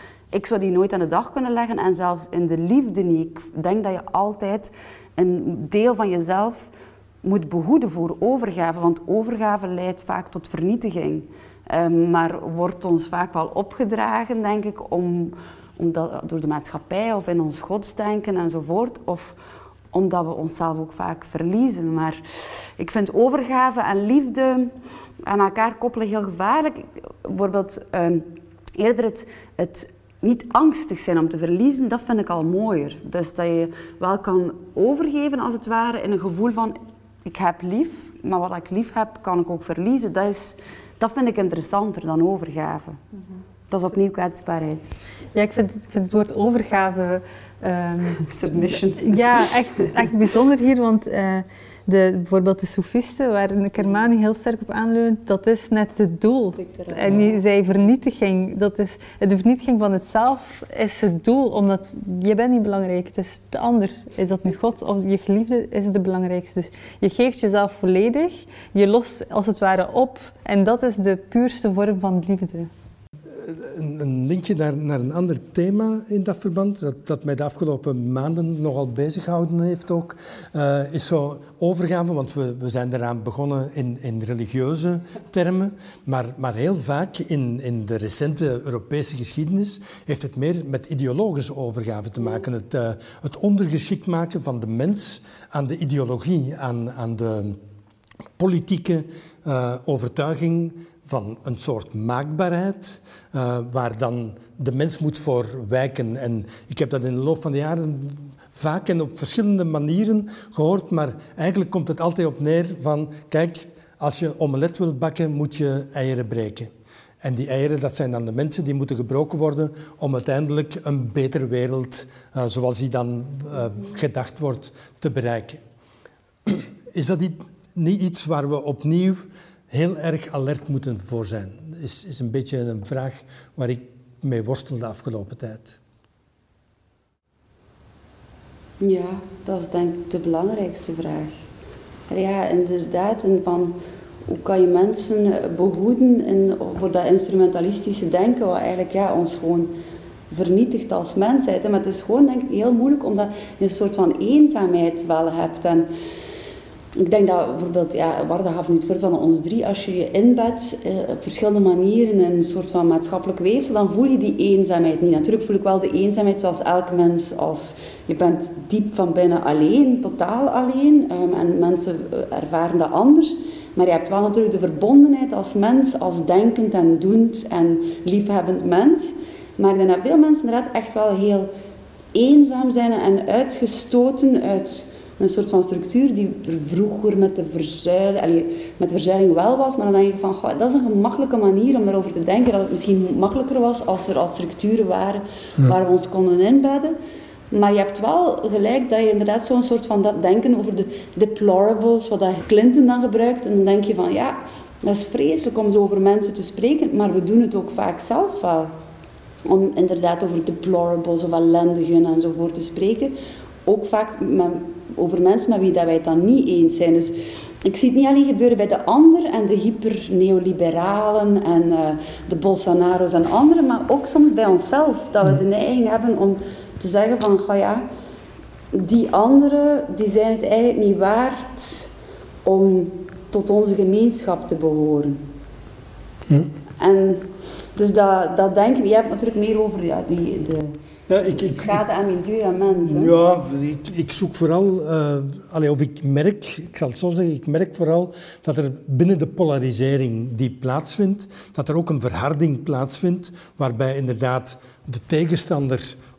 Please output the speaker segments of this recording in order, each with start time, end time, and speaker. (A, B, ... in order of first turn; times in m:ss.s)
0:00.3-0:06.7 A
0:07.2-0:19.4 A
0:19.9-0:22.2 A
0:22.8-0:24.7 A
0:25.3-0:43.0 A
0:43.7-0:44.9 A
0:45.3-0:48.3 B
0:48.2-0:49.8 A
0:49.0-1:12.7 B
0:56.7-0:57.4 A
1:13.3-1:37.6 C
1:38.4-1:56.7 C
1:57.2-2:05.6 C
2:06.5-2:15.8 C
2:18.8-2:21.4 A
2:22.1-2:29.7 A
2:30.3-2:35.9 A
2:37.0-3:01.5 A
3:02.1-3:17.0 A
3:17.5-3:28.7 A
3:29.4-3:33.2 A
3:33.7-3:47.8 A
3:48.7-3:51.9 A
3:52.4-3:55.2 A
3:56.8-4:00.7 A
4:01.1-4:01.8 C
4:01.3-4:03.1 A
4:02.9-4:16.0 C